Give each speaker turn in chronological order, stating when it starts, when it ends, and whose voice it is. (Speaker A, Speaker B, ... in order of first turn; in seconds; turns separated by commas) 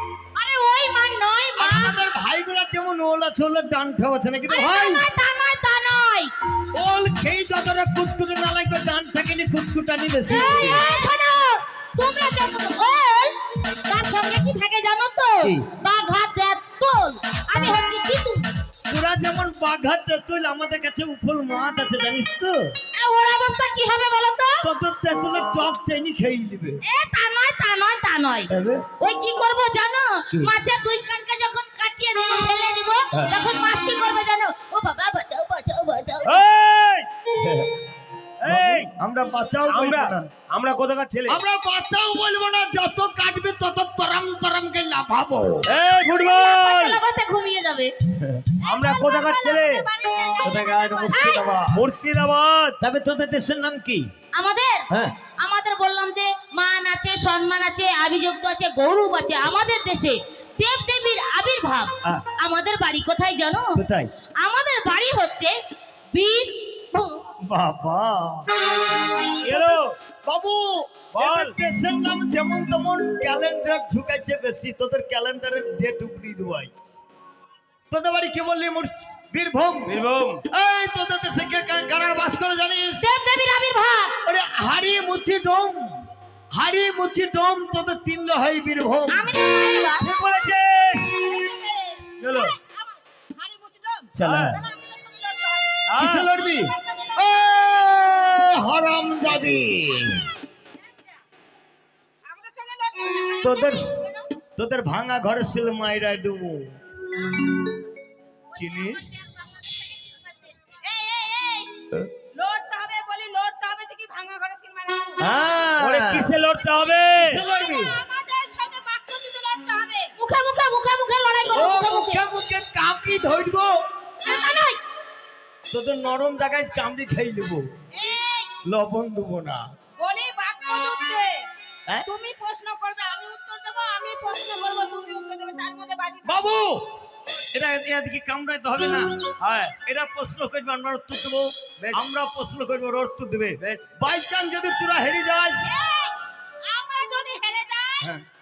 Speaker A: 0.3-2.0, Speaker B: 1.6-5.0, Speaker A: 4.5-6.3, Speaker B: 6.7-10.9, Speaker A: 10.3-18.5, Speaker B: 15.4-15.7, Speaker B: 18.9-22.8, Speaker A: 22.9-24.7, Speaker B: 24.6-26.8, Speaker A: 26.8-36.6, Speaker B: 28.5-28.9, Speaker B: 33.1-33.4, Speaker C: 36.2-37.1, Speaker B: 37.3-37.7, Speaker C: 38.4-38.9, Speaker B: 38.5-40.3, Speaker C: 39.7-41.4, Speaker B: 41.3-45.7, Speaker C: 45.7-47.0, Speaker A: 46.0-47.9, Speaker B: 48.2-48.5, Speaker D: 48.6-51.4, Speaker C: 48.6-49.9, Speaker B: 50.4-51.9, Speaker A: 51.1-51.4, Speaker C: 51.7-52.8, Speaker B: 52.8-54.1, Speaker A: 54.4-54.9, Speaker A: 55.4-63.8, Speaker B: 63.8-64.1, Speaker A: 64.4-65.6, Speaker A: 66.1-67.3, Speaker B: 67.5-68.6, Speaker C: 69.4-70.0, Speaker B: 70.2-76.7, Speaker C: 71.2-71.6, Speaker B: 77.9-80.0, Speaker C: 79.9-80.4, Speaker B: 80.5-83.0, Speaker A: 83.0-84.2, Speaker B: 84.2-89.3, Speaker A: 89.1-90.2, Speaker C: 90.0-91.3, Speaker D: 91.1-95.8, Speaker C: 92.2-92.6, Speaker B: 94.2-94.6, Speaker C: 94.2-94.6, Speaker C: 95.9-96.3, Speaker B: 96.0-100.3, Speaker D: 96.3-97.2, Speaker D: 102.2-104.2, Speaker B: 103.4-104.0, Speaker B: 104.6-106.7, Speaker B: 108.5-109.2, Speaker D: 110.8-111.8, Speaker D: 112.3-115.2, Speaker B: 115.2-116.3, Speaker C: 115.8-117.4, Speaker B: 117.2-118.0, Speaker D: 117.3-120.1, Speaker A: 120.2-122.3, Speaker B: 121.5-123.7, Speaker A: 124.2-124.8, Speaker B: 125.7-127.7, Speaker D: 127.9-128.5, Speaker B: 128.6-129.6, Speaker D: 130.0-131.5, Speaker D: 132.1-136.6, Speaker B: 136.2-136.9, Speaker B: 137.4-139.2, Speaker C: 139.4-139.8, Speaker B: 139.8-145.7, Speaker C: 141.8-142.1, Speaker C: 143.6-143.9, Speaker D: 145.7-148.1